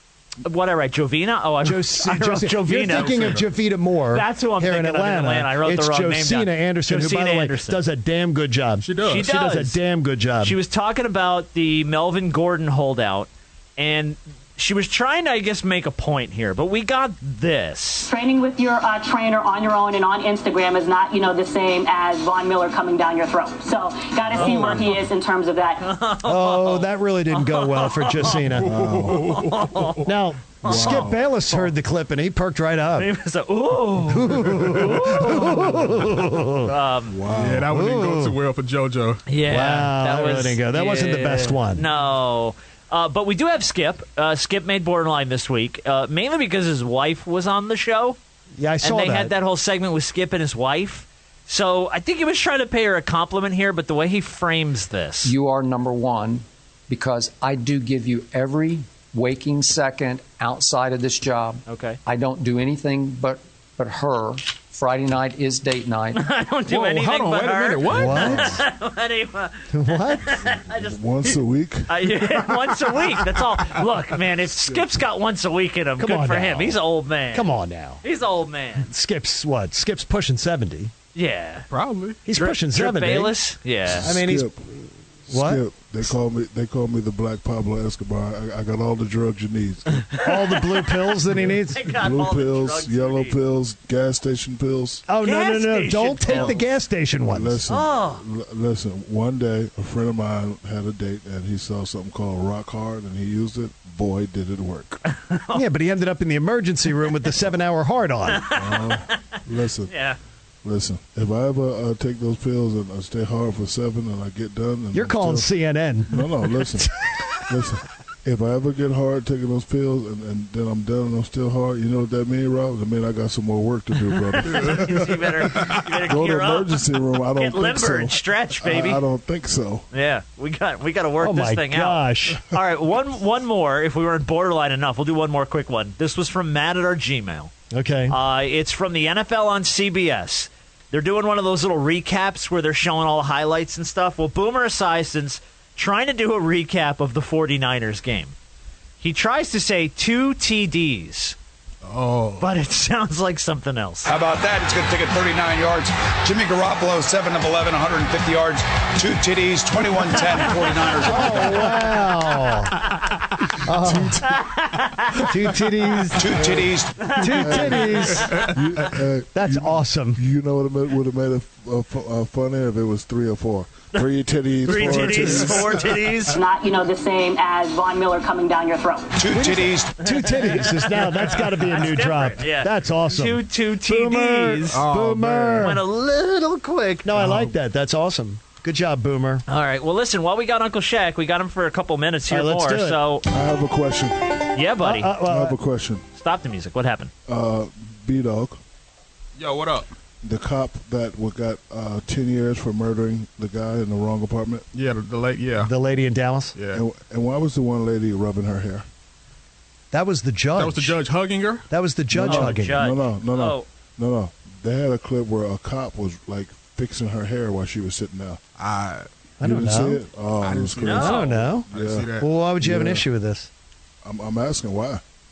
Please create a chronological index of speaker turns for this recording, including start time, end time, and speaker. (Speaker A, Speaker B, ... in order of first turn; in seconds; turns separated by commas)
Speaker A: 0.4-3.4, Speaker B: 1.6-10.6, Speaker C: 2.8-3.5, Speaker A: 4.1-7.8, Speaker C: 8.8-9.2, Speaker A: 9.0-9.8, Speaker A: 10.4-18.1, Speaker D: 18.0-25.9, Speaker A: 24.3-24.9, Speaker A: 25.8-28.4, Speaker B: 26.2-28.9, Speaker C: 28.5-30.1, Speaker E: 28.6-29.4, Speaker A: 29.2-30.1, Speaker B: 30.0-33.1, Speaker A: 30.6-31.7, Speaker E: 30.6-31.3, Speaker A: 33.0-35.9, Speaker B: 34.0-36.7, Speaker A: 36.6-37.1, Speaker E: 37.1-37.7, Speaker C: 37.2-39.2, Speaker B: 37.7-38.4, Speaker A: 39.3-48.2, Speaker B: 39.5-41.8, Speaker B: 48.6-49.3, Speaker A: 48.8-55.3, Speaker F: 55.2-66.2, Speaker A: 61.7-62.0, Speaker A: 66.1-71.3, Speaker C: 66.7-68.6, Speaker B: 67.9-68.6, Speaker B: 69.7-70.3, Speaker E: 70.5-71.9, Speaker A: 71.9-77.5, Speaker B: 76.0-76.8, Speaker B: 77.3-78.0, Speaker A: 78.0-78.9, Speaker B: 78.8-80.9, Speaker A: 81.1-81.7, Speaker C: 81.7-82.2, Speaker B: 82.2-83.3, Speaker A: 82.3-84.1, Speaker E: 83.9-90.0, Speaker B: 84.0-84.5, Speaker B: 85.3-85.6, Speaker A: 90.1-93.4, Speaker B: 90.2-91.8, Speaker E: 91.9-95.0, Speaker B: 95.1-97.6, Speaker A: 95.2-96.6, Speaker E: 96.3-96.6, Speaker E: 97.3-105.0, Speaker A: 97.7-98.2, Speaker A: 105.2-105.6, Speaker B: 105.5-108.5, Speaker A: 108.3-109.1, Speaker E: 108.5-109.9, Speaker A: 109.9-110.2, Speaker E: 110.6-115.5, Speaker B: 114.9-116.3, Speaker E: 116.1-116.9, Speaker E: 117.4-129.9, Speaker A: 124.5-126.8, Speaker C: 124.6-124.9, Speaker A: 127.3-129.0, Speaker A: 129.9-137.5, Speaker B: 131.2-132.4, Speaker B: 137.7-138.2, Speaker A: 138.1-148.3, Speaker A: 149.0-151.3, Speaker C: 151.8-152.4, Speaker A: 152.4-154.1, Speaker G: 154.1-161.7, Speaker B: 161.0-162.8, Speaker B: 163.6-164.3, Speaker E: 163.8-164.4, Speaker A: 164.3-165.2, Speaker B: 165.1-166.4, Speaker G: 166.2-166.9, Speaker E: 166.2-176.0, Speaker A: 167.0-167.7, Speaker B: 167.1-168.4, Speaker C: 168.2-168.6, Speaker B: 169.3-170.2, Speaker A: 174.7-176.4, Speaker C: 174.7-175.8, Speaker D: 176.3-179.2, Speaker B: 179.3-185.8, Speaker G: 179.3-179.8, Speaker A: 180.2-184.9, Speaker C: 184.7-185.7, Speaker A: 185.6-187.2, Speaker B: 187.0-189.4, Speaker C: 187.2-187.5, Speaker A: 189.5-193.2, Speaker B: 192.3-193.0, Speaker E: 193.3-194.4, Speaker A: 194.5-195.1, Speaker B: 194.8-195.6, Speaker E: 195.2-196.0, Speaker A: 196.1-197.1, Speaker E: 197.3-198.6, Speaker C: 199.4-199.9, Speaker E: 200.2-204.7, Speaker C: 204.7-205.7, Speaker B: 205.6-206.5, Speaker C: 206.5-206.8, Speaker E: 206.7-208.8, Speaker B: 209.9-211.0, Speaker C: 210.5-211.7, Speaker B: 211.7-212.8, Speaker E: 212.1-218.4, Speaker A: 212.2-213.7, Speaker C: 218.6-219.1, Speaker B: 219.4-220.0, Speaker E: 219.4-221.2, Speaker C: 220.4-222.3, Speaker A: 220.8-221.3, Speaker B: 221.0-223.5, Speaker E: 221.7-223.1, Speaker E: 224.0-225.0